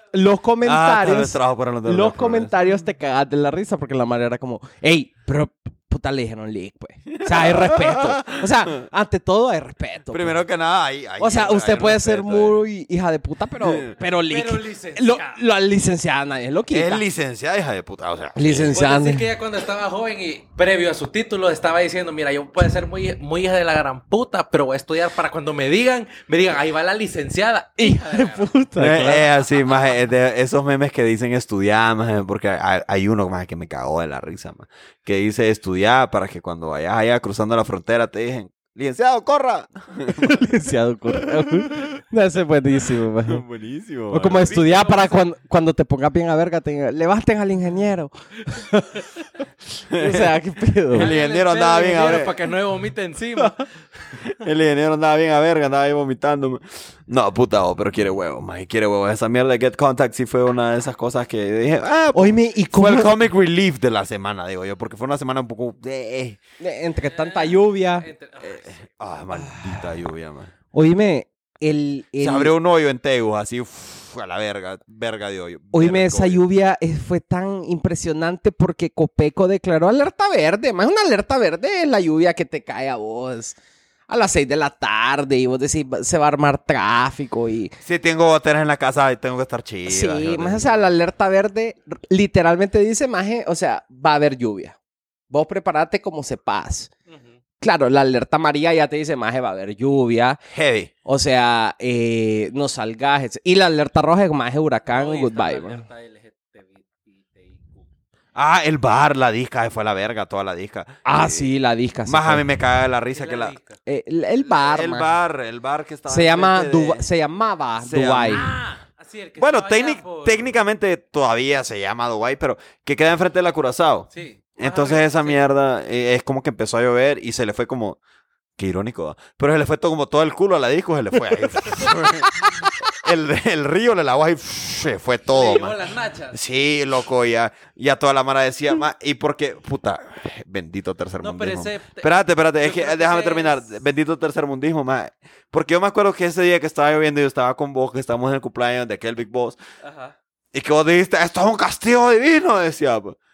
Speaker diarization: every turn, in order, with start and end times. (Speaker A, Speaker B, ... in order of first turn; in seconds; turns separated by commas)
Speaker A: 0.1-10.4, Speaker B: 0.6-2.5, Speaker B: 7.2-8.5, Speaker B: 10.1-12.6, Speaker A: 11.2-17.0, Speaker C: 14.3-15.4, Speaker B: 16.7-18.7, Speaker A: 18.4-19.3, Speaker C: 18.7-29.8, Speaker A: 27.8-29.2, Speaker B: 28.8-40.3, Speaker A: 40.1-43.4, Speaker B: 43.3-44.5, Speaker A: 44.1-49.1, Speaker C: 44.3-45.2, Speaker B: 49.9-50.3, Speaker A: 49.9-51.1, Speaker B: 50.9-52.4, Speaker C: 50.9-53.7, Speaker B: 54.3-66.4, Speaker A: 62.1-63.2, Speaker A: 66.6-68.1, Speaker C: 67.0-68.9, Speaker B: 68.4-70.5, Speaker A: 69.3-69.8, Speaker A: 70.7-72.5, Speaker B: 72.2-76.4, Speaker A: 75.7-83.6, Speaker A: 84.1-87.8, Speaker B: 87.8-90.7, Speaker A: 89.9-94.8, Speaker A: 95.3-96.9, Speaker C: 97.1-97.4, Speaker A: 97.6-100.4, Speaker B: 100.5-100.9, Speaker A: 101.0-105.8, Speaker C: 104.8-107.9, Speaker B: 108.3-111.5, Speaker A: 111.0-112.4, Speaker B: 112.0-113.6, Speaker C: 113.1-113.8, Speaker A: 113.8-115.1, Speaker B: 114.6-117.1, Speaker A: 116.1-118.5, Speaker B: 117.8-118.6, Speaker C: 118.2-120.5, Speaker B: 119.4-128.0, Speaker C: 124.1-125.4, Speaker B: 128.6-135.8, Speaker C: 135.3-136.4, Speaker B: 136.3-149.6, Speaker C: 141.2-143.8, Speaker C: 149.8-150.1, Speaker B: 150.5-153.2